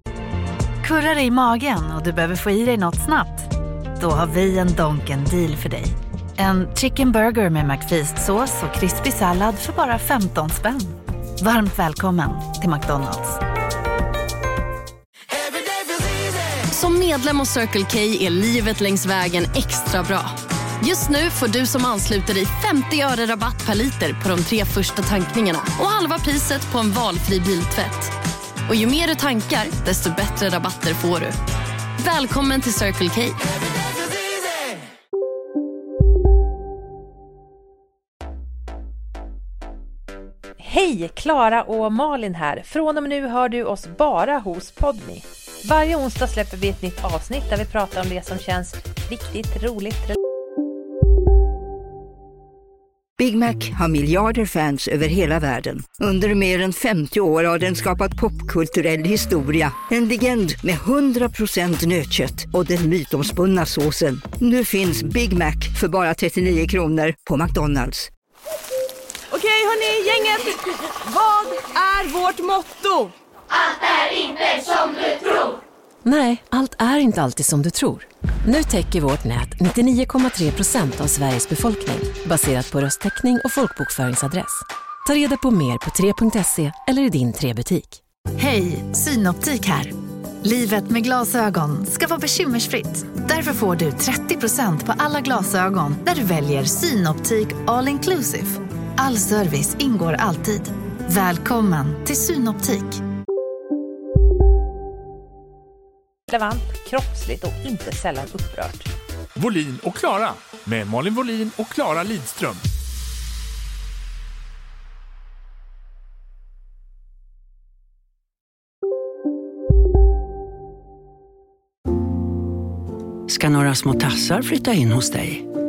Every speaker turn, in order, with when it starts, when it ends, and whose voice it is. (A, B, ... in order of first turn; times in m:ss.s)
0:00.8-0:13.4 A
0:16.7-0:28.1 B
0:28.7-0:31.4 B
0:32.0-0:33.4 B
0:40.6-0:50.2 C
0:53.2-1:08.1 D
1:09.3-1:10.5 E
1:11.1-1:13.1 E
1:16.0-1:28.0 F
1:28.4-1:29.9 A
1:30.4-1:43.0 A
1:46.3-1:48.9 C
1:49.4-1:52.6 G
2:03.3-2:05.4 H